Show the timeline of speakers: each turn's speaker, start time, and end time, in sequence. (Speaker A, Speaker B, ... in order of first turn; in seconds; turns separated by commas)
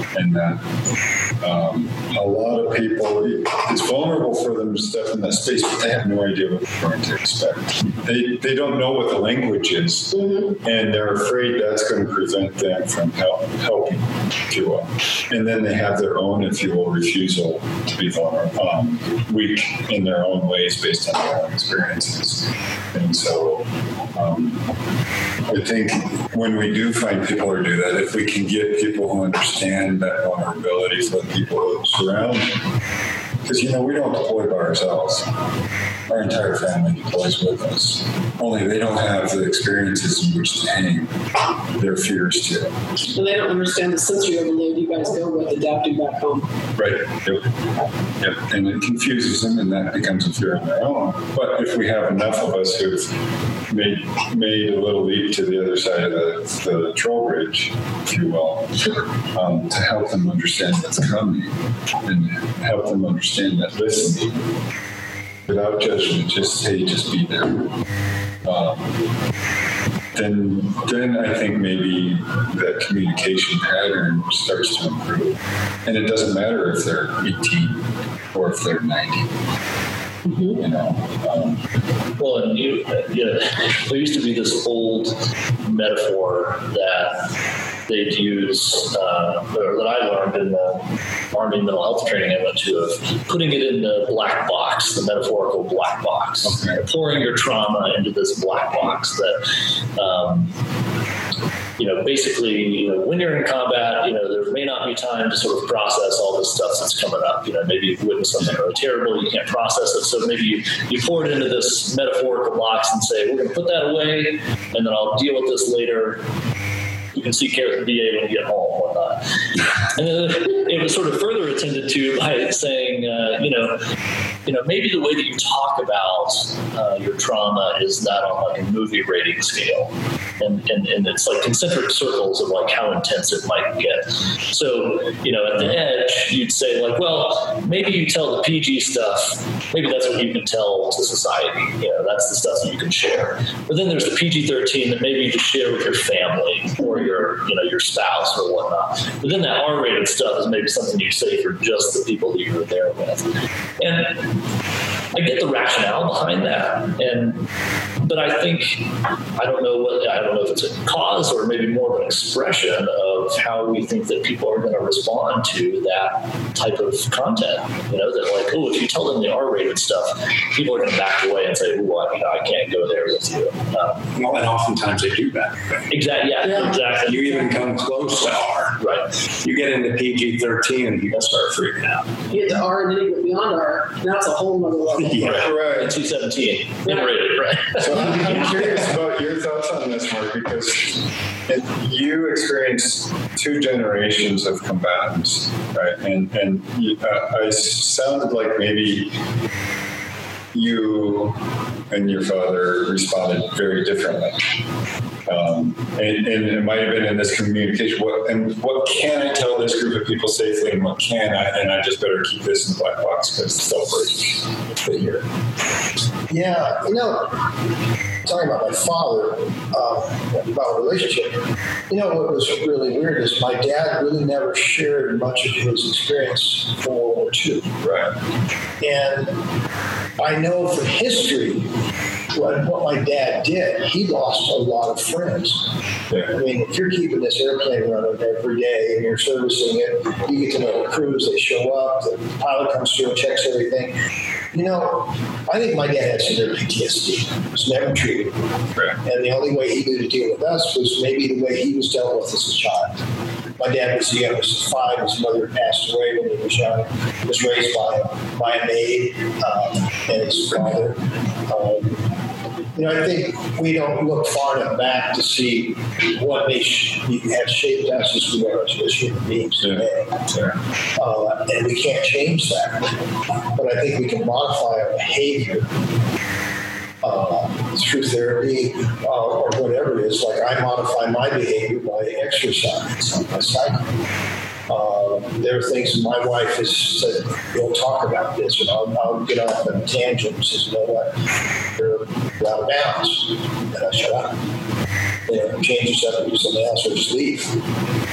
Speaker A: 0.1-0.6, Speaker A: 1.4-24.7, Speaker B: 10.2-10.5, Speaker A: 25.5-32.6, Speaker A: 33.4-35.3, Speaker A: 36.1-42.8, Speaker B: 43.1-46.5, Speaker A: 46.8-47.5, Speaker A: 48.2-64.5, Speaker A: 65.4-67.8, Speaker A: 68.4-69.0, Speaker A: 70.1-79.3, Speaker B: 80.2-80.6, Speaker A: 80.6-81.6, Speaker C: 82.2-87.3, Speaker C: 87.9-100.5, Speaker A: 96.4-96.8, Speaker C: 101.8-116.2, Speaker C: 117.1-119.2, Speaker C: 119.8-123.8, Speaker C: 124.5-154.4, Speaker C: 155.1-157.5, Speaker C: 158.0-174.1, Speaker D: 174.1-175.8, Speaker C: 175.9-177.4, Speaker B: 176.4-176.7, Speaker D: 177.0-178.8, Speaker C: 178.8-179.1, Speaker D: 179.4-182.2, Speaker B: 182.3-185.5, Speaker D: 185.1-185.5, Speaker C: 185.2-188.3, Speaker A: 185.3-185.9, Speaker B: 186.9-187.1, Speaker A: 187.8-199.2, Speaker A: 200.5-204.4, Speaker A: 205.2-215.2, Speaker E: 216.3-217.4, Speaker E: 218.2-227.8, Speaker A: 227.8-228.1, Speaker E: 228.8-229.4, Speaker E: 230.2-231.7, Speaker E: 232.3-244.0, Speaker E: 244.5-248.4, Speaker E: 249.0-253.0, Speaker E: 253.6-262.1, Speaker E: 262.7-270.2, Speaker A: 269.6-270.6, Speaker E: 270.9-273.0, Speaker E: 273.5-275.7, Speaker E: 277.0-283.9, Speaker E: 284.7-294.4, Speaker E: 295.3-297.6